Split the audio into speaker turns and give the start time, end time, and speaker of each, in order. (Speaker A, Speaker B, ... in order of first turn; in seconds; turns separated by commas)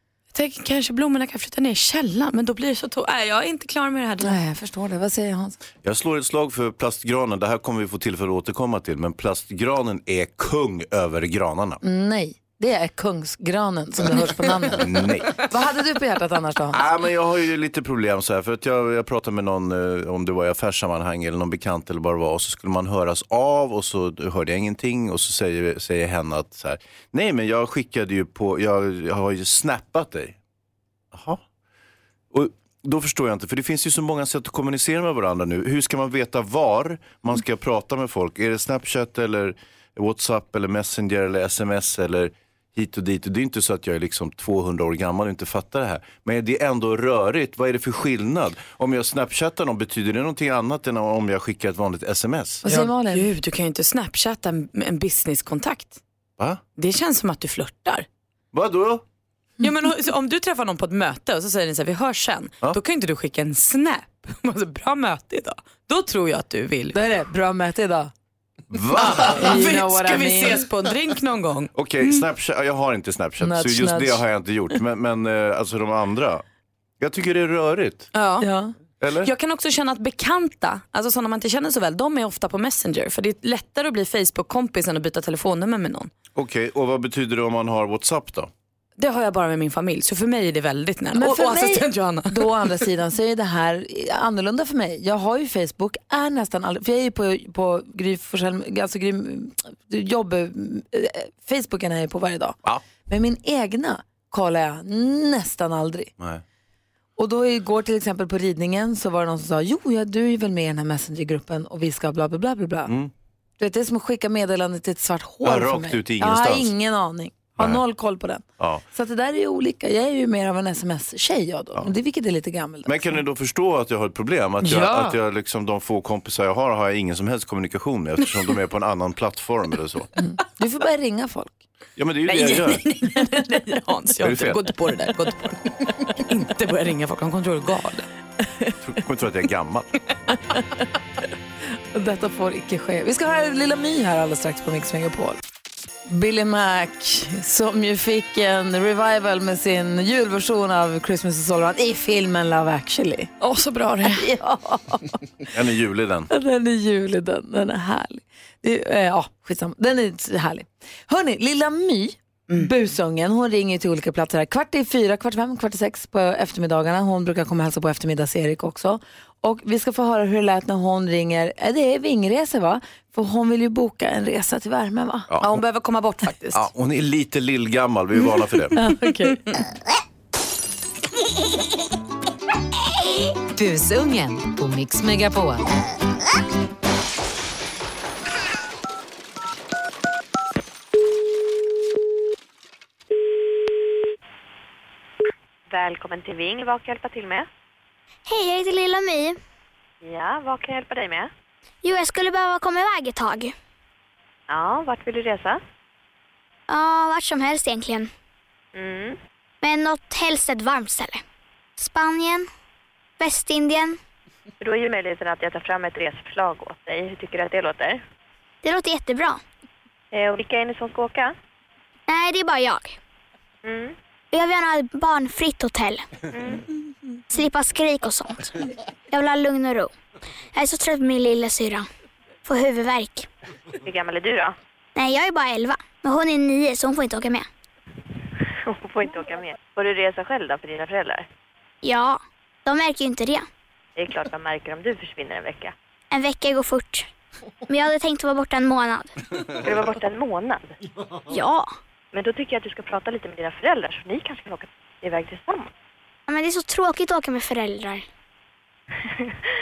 Speaker A: 0.3-4.4, Speaker B: 4.2-5.6, Speaker C: 5.8-11.8, Speaker B: 11.8-16.8, Speaker C: 14.7-15.3, Speaker C: 16.7-30.4, Speaker C: 31.1-31.4, Speaker C: 32.3-52.6, Speaker B: 52.6-53.3, Speaker A: 52.6-56.0, Speaker A: 56.8-58.1, Speaker C: 58.5-59.0, Speaker A: 59.6-67.0, Speaker B: 66.9-68.1, Speaker C: 68.7-69.5, Speaker B: 69.0-70.7, Speaker A: 69.2-72.2, Speaker C: 71.8-76.4, Speaker B: 73.4-74.2, Speaker C: 77.0-78.1, Speaker A: 78.1-78.5, Speaker B: 78.4-78.7, Speaker C: 79.0-79.3, Speaker A: 79.2-86.1, Speaker C: 86.3-88.5, Speaker A: 89.0-92.5, Speaker B: 91.1-106.1, Speaker B: 107.2-112.9, Speaker B: 113.6-123.1, Speaker C: 115.4-116.7, Speaker C: 118.6-118.8, Speaker C: 122.9-130.1, Speaker B: 124.6-125.1, Speaker B: 130.2-131.6, Speaker C: 132.0-132.9, Speaker A: 132.3-138.1, Speaker C: 134.2-134.6, Speaker C: 138.8-139.9, Speaker B: 141.9-145.4, Speaker B: 146.1-153.3, Speaker A: 153.4-154.2, Speaker B: 154.1-155.2, Speaker C: 155.5-156.3, Speaker B: 156.3-175.3, Speaker A: 175.4-176.6, Speaker C: 176.5-178.8, Speaker A: 178.8-179.6, Speaker B: 178.8-179.3, Speaker D: 183.5-185.7, Speaker E: 195.7-197.5, Speaker F: 198.3-199.4, Speaker E: 200.0-201.3, Speaker F: 201.8-203.5, Speaker E: 204.5-205.6, Speaker F: 206.7-208.1, Speaker E: 208.7-209.2, Speaker F: 209.6-211.2, Speaker F: 211.8-212.5, Speaker F: 213.2-214.0, Speaker E: 214.6-218.0, Speaker F: 218.6-219.4, Speaker E: 220.1-221.3, Speaker F: 222.1-223.0, Speaker E: 223.6-224.0, Speaker F: 224.3-226.1, Speaker E: 226.3-226.6, Speaker F: 227.3-228.6, Speaker F: 229.1-229.9, Speaker F: 230.5-231.9, Speaker F: 232.4-233.3, Speaker E: 233.8-234.6, Speaker F: 234.9-237.5, Speaker E: 238.6-241.3, Speaker F: 241.8-243.5, Speaker E: 244.0-245.7, Speaker F: 246.1-247.1, Speaker F: 247.7-249.1, Speaker E: 249.6-250.8, Speaker F: 251.3-251.8, Speaker E: 252.1-255.7, Speaker F: 256.3-258.1, Speaker E: 259.1-259.4